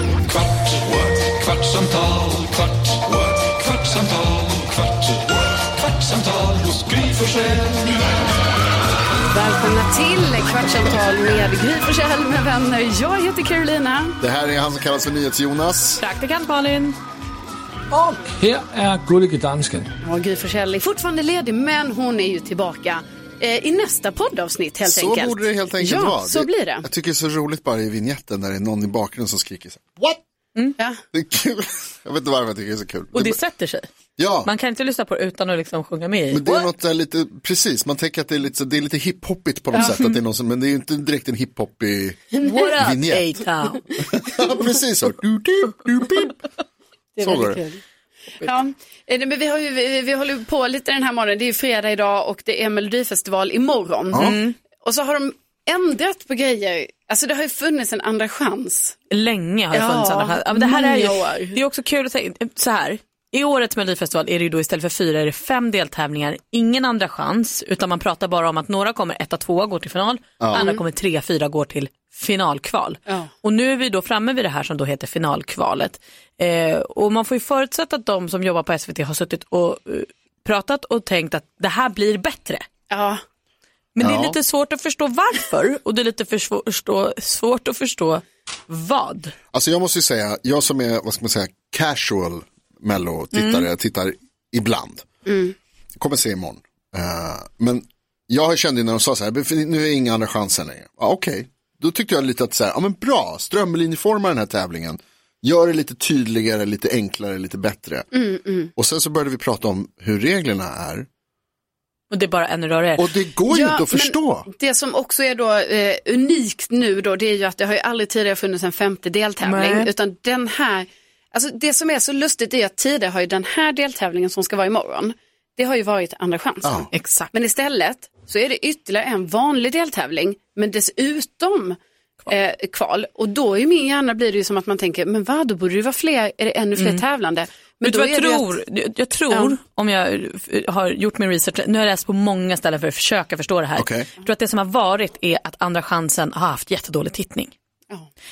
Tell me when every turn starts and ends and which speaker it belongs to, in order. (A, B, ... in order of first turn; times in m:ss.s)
0:00.3-0:07.9 A
0:09.3-0:14.2 B
0:14.2-0:16.0 C
0:16.0-0:17.0 D
0:17.9-0:19.9 E
0:20.0-0:26.9 B
0:24.8-0:30.2 C
0:31.1-0:33.4 C
0:33.1-0:33.9 D
0:34.2-0:34.5 C
0:34.4-0:36.7 D
0:36.3-0:43.3 C
0:39.8-0:40.1 D
0:42.4-0:43.9 D
0:44.0-0:46.4 C
0:47.2-0:47.8 B
0:47.2-0:47.6 C
0:48.4-0:59.0 B
0:54.1-0:54.4 C
0:54.1-0:54.6 D
0:59.1-1:22.6 D
0:59.7-1:01.6 B
1:10.4-1:10.7 C
1:22.9-1:23.2 B
1:23.9-1:29.3 D
1:24.0-1:24.4 C
1:29.5-1:35.0 C
1:33.3-1:33.7 D
1:35.2-1:35.5 B
1:36.0-1:48.1 C
1:48.1-1:48.7 B
1:48.8-1:51.1 C
1:52.1-1:53.1 D
1:53.0-1:54.5 C
1:53.5-2:11.8 B
1:59.4-1:59.9 D
2:06.9-2:07.3 D
2:12.3-2:18.5 B
2:16.8-2:17.0 D
2:17.8-2:27.5 D
2:23.8-2:24.1 C